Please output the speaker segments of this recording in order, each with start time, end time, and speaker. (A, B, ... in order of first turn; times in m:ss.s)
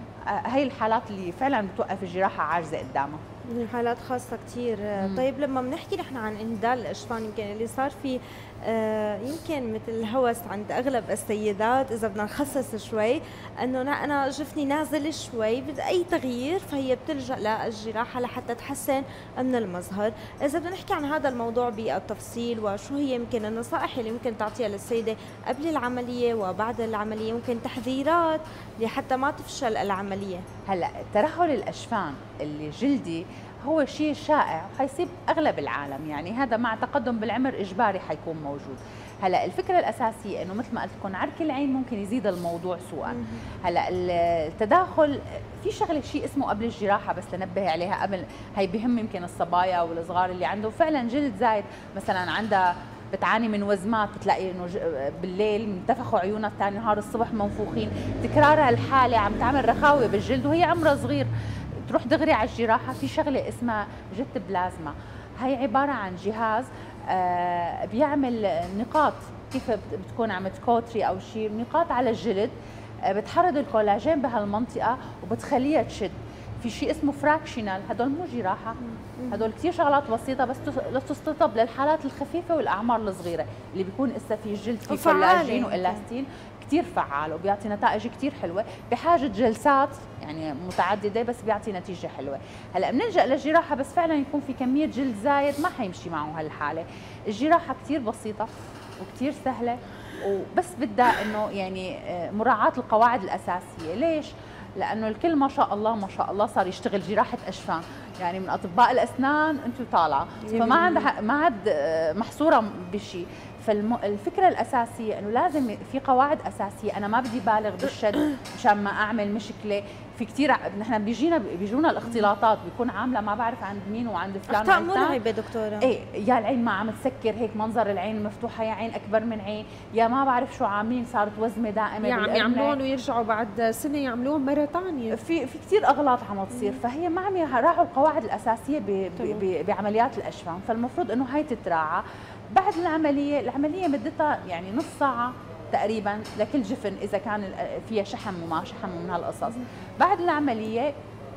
0:00.2-0:03.2 A
0:03.4-0:30.4 B
0:05.0-0:05.2 A
0:30.7-1:01.3 A
1:01.8-1:12.5 A
1:13.0-2:05.2 A
1:24.9-1:26.0 B
1:50.4-1:51.1 C
2:04.5-2:05.9 B
2:05.8-2:12.8 A
2:12.0-2:15.2 C
2:15.1-2:30.9 A